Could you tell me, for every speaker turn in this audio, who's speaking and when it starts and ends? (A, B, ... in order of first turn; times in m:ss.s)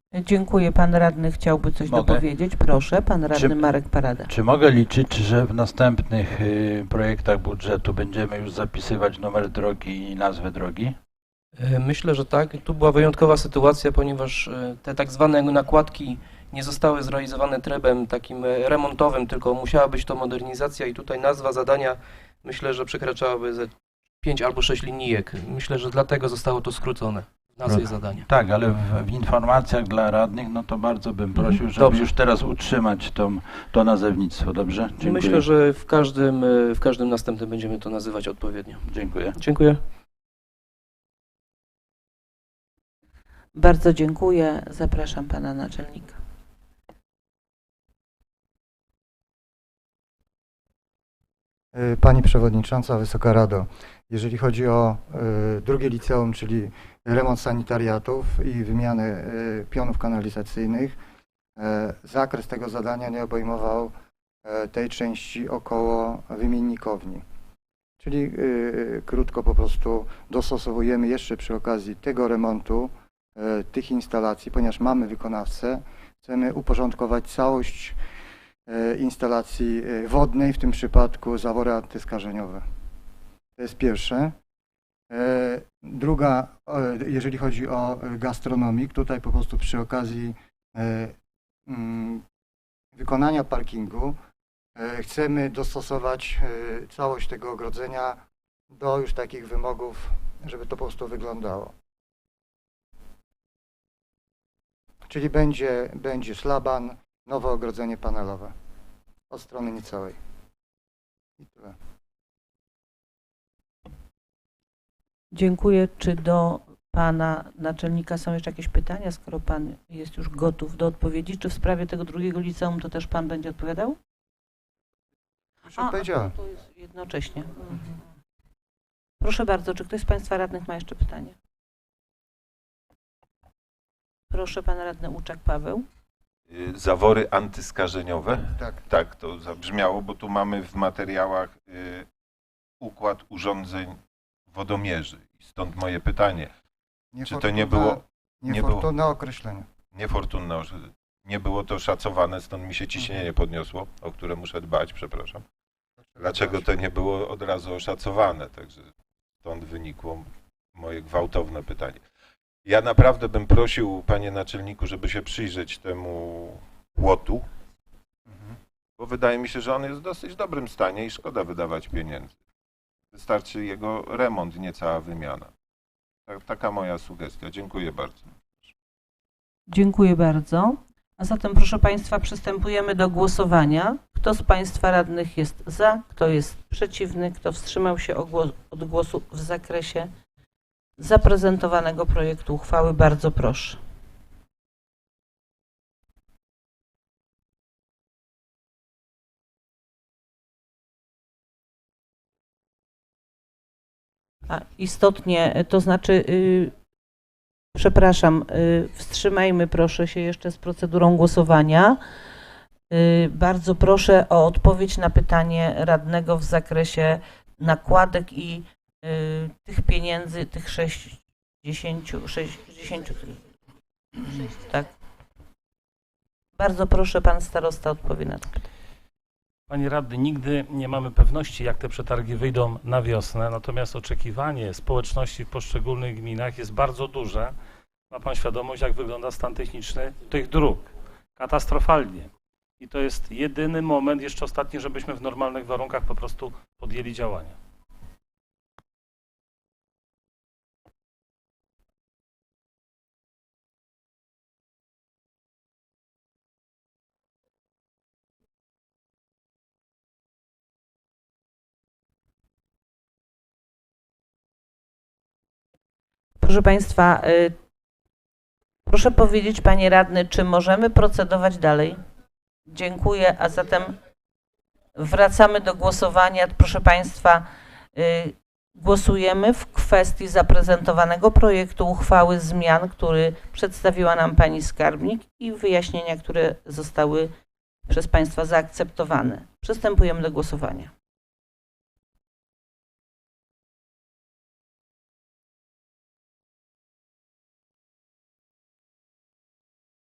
0:00.1-0:04.3 A
0:01.9-0:02.2 B
0:03.3-0:10.9 B
0:11.5-0:28.2 C
0:27.6-0:35.5 B
0:31.3-0:32.1 C
0:35.0-0:38.8 C
0:38.8-0:39.4 B
0:39.3-0:39.8 C
0:43.5-0:46.2 A
0:51.7-1:01.0 D
1:01.6-1:07.2 D
1:08.0-1:18.0 D
1:18.7-1:22.7 D
1:23.6-1:24.3 D
1:25.1-1:32.2 D
1:32.9-1:34.2 D
1:34.8-1:41.7 D
1:45.1-1:48.5 D
1:49.3-1:50.2 D
1:51.4-1:51.8 D
1:55.3-2:04.0 A
2:05.6-2:06.3 D
2:05.8-2:08.0 A
2:09.2-2:11.4 A
2:14.3-2:15.8 A
2:16.5-2:22.1 E
2:18.5-2:18.8 D
2:22.8-2:24.0 E
2:24.5-2:26.5 E
2:27.1-2:29.7 D
2:27.2-2:28.9 E
2:29.9-2:35.4 E
2:33.0-2:33.2 D
2:36.0-2:36.7 D
2:36.2-2:38.9 E
2:39.4-2:42.0 E
2:42.6-2:47.5 E
2:49.0-2:52.3 E
2:53.1-2:55.5 E
2:56.3-2:58.7 E
2:59.7-3:10.1 A
3:11.0-3:13.8 A
3:24.5-3:26.7 A
3:27.7-3:32.0 A
3:32.9-3:43.4 A
3:44.2-3:44.9 A
3:46.6-3:48.7 A
3:49.7-3:57.5 F
3:58.1-4:07.6 F
4:26.4-4:27.6 A
4:28.8-4:32.0 A
4:32.7-4:33.9 A
4:35.0-4:47.3 A
4:47.9-4:50.9 A